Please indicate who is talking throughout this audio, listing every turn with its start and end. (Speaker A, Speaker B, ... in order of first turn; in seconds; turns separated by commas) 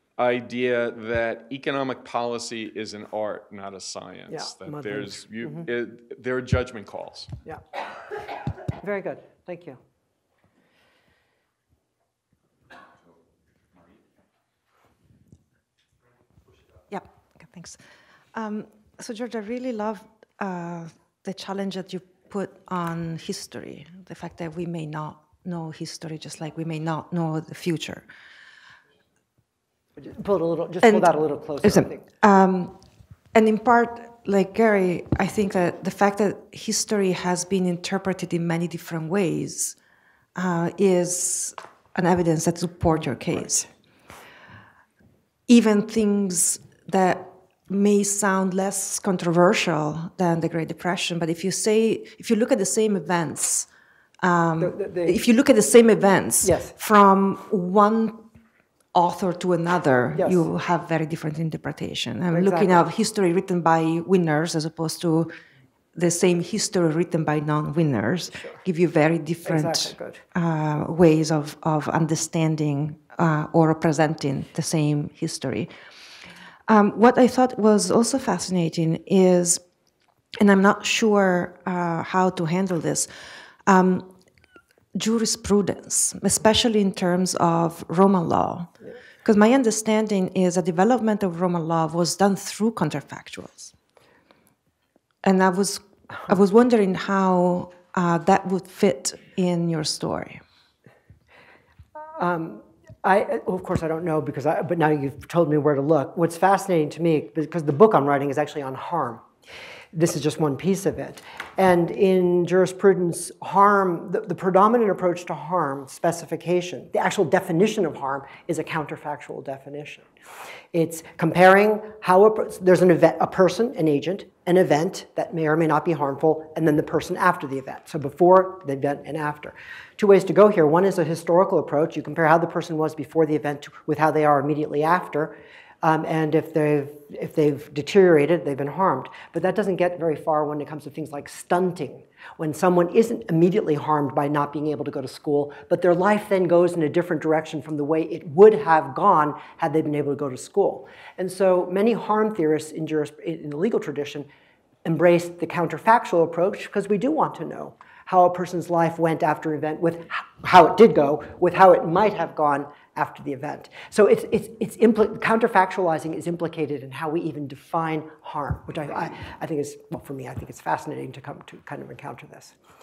Speaker A: 0.2-7.3, Speaker B: 4.3-5.7, Speaker B: 8.8-9.8, Speaker C: 16.9-28.1, Speaker B: 30.0-32.0, Speaker C: 30.8-32.8, Speaker C: 33.3-39.8, Speaker C: 40.4-43.7, Speaker C: 45.5-53.7, Speaker C: 54.2-58.3, Speaker B: 54.6-55.2, Speaker B: 56.4-56.7, Speaker C: 58.9-65.3, Speaker B: 60.1-60.4, Speaker B: 62.3-62.8, Speaker C: 65.9-75.7, Speaker B: 69.4-70.2, Speaker C: 76.7-79.6, Speaker C: 80.4-83.1, Speaker C: 83.6-84.1, Speaker C: 84.9-93.7, Speaker C: 95.2-100.4, Speaker B: 102.1-109.2, Speaker B: 109.9-120.1, Speaker B: 120.7-154.3, Speaker B: 154.8-172.5